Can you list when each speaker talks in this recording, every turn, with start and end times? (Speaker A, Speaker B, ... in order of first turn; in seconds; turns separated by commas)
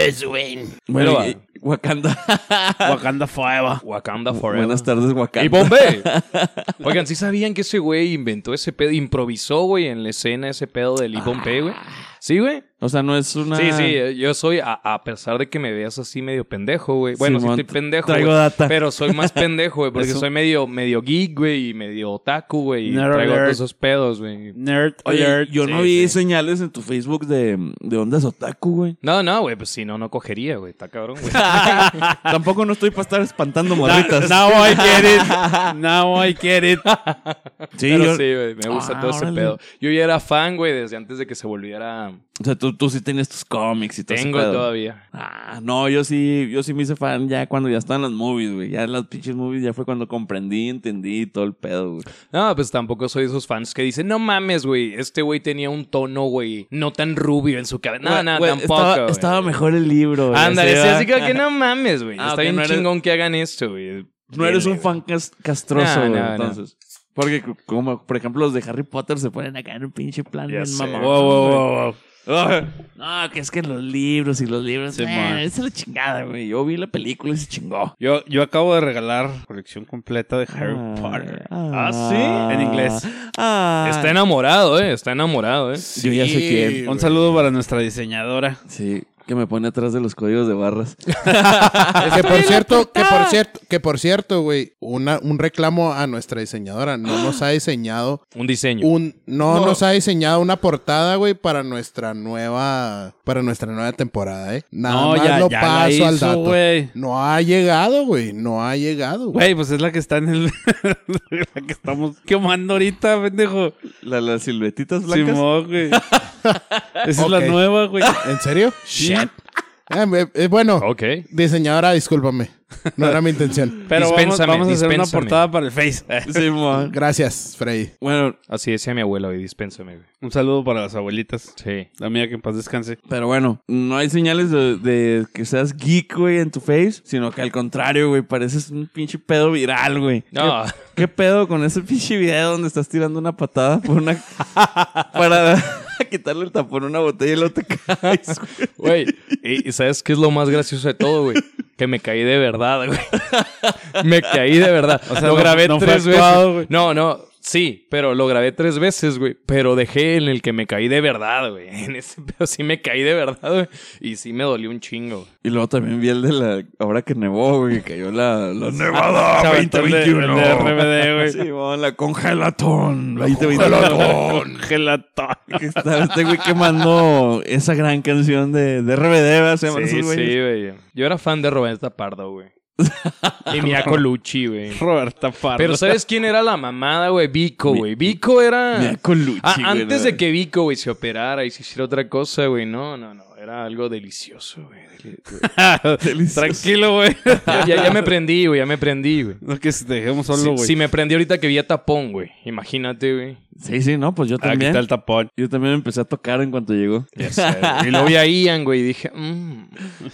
Speaker A: 0.2-0.7, Speaker B: 0.9-3.0, Speaker C: 0.9-1.4, Speaker D: 2.8-3.8, Speaker C: 3.8-6.1, Speaker B: 4.3-6.8, Speaker C: 6.8-12.7, Speaker B: 11.2-12.0, Speaker B: 12.8-14.0, Speaker C: 13.5-24.6, Speaker B: 17.2-19.4, Speaker D: 20.0-20.2, Speaker D: 22.9-23.6, Speaker D: 24.5-25.5, Speaker B: 25.1-29.0, Speaker C: 25.6-26.2, Speaker C: 29.0-32.0, Speaker B: 31.3-35.8, Speaker D: 31.4-32.1, Speaker D: 33.8-36.9, Speaker C: 36.9-42.2, Speaker B: 37.8-39.6, Speaker B: 42.4-52.1, Speaker C: 44.1-45.0, Speaker C: 52.3-59.6, Speaker B: 58.0-61.4, Speaker C: 60.3-64.9, Speaker B: 62.2-62.9, Speaker B: 64.3-71.7, Speaker C: 65.7-66.6, Speaker C: 70.5-71.5, Speaker D: 71.0-72.0, Speaker B: 72.3-77.9, Speaker D: 74.9-75.4, Speaker D: 78.0-81.5, Speaker B: 80.5-84.2, Speaker C: 81.7-82.5, Speaker D: 82.5-83.1, Speaker C: 83.8-85.9, Speaker A: 85.9-87.2, Speaker B: 85.9-87.0, Speaker D: 86.8-88.6, Speaker B: 88.7-92.6, Speaker D: 92.0-92.7, Speaker A: 92.0-98.2, Speaker C: 92.2-92.6, Speaker C: 98.3-98.9, Speaker A: 98.8-109.4, Speaker D: 99.5-99.8, Speaker D: 104.9-106.9, Speaker D: 109.3-113.8, Speaker B: 114.0-116.8, Speaker D: 115.1-116.0, Speaker D: 117.0-118.2, Speaker A: 117.2-119.3, Speaker D: 119.0-119.3, Speaker A: 119.9-123.8, Speaker C: 120.8-121.3, Speaker D: 123.9-126.5, Speaker C: 123.9-125.5, Speaker B: 126.3-127.0, Speaker A: 126.8-127.9, Speaker B: 128.0-128.4, Speaker C: 128.5-130.1, Speaker D: 130.2-133.0, Speaker C: 131.6-131.9, Speaker B: 133.1-149.3, Speaker C: 140.3-141.0, Speaker C: 148.8-153.4, Speaker B: 153.4-153.8, Speaker C: 153.9-165.3, Speaker D: 155.1-156.7, Speaker B: 165.4-174.4, Speaker D: 169.3-171.4, Speaker A: 173.2-174.6, Speaker D: 173.5-175.8, Speaker B: 175.5-180.3, Speaker C: 179.7-182.5, Speaker B: 182.8-183.8, Speaker C: 183.5-184.8, Speaker D: 184.7-186.0, Speaker C: 185.6-195.4, Speaker B: 188.7-190.2, Speaker D: 195.4-198.0, Speaker B: 196.0-196.7, Speaker C: 197.5-199.4, Speaker D: 199.4-200.7, Speaker C: 200.4-203.4, Speaker B: 203.6-208.1, Speaker D: 204.4-205.3, Speaker C: 207.2-209.9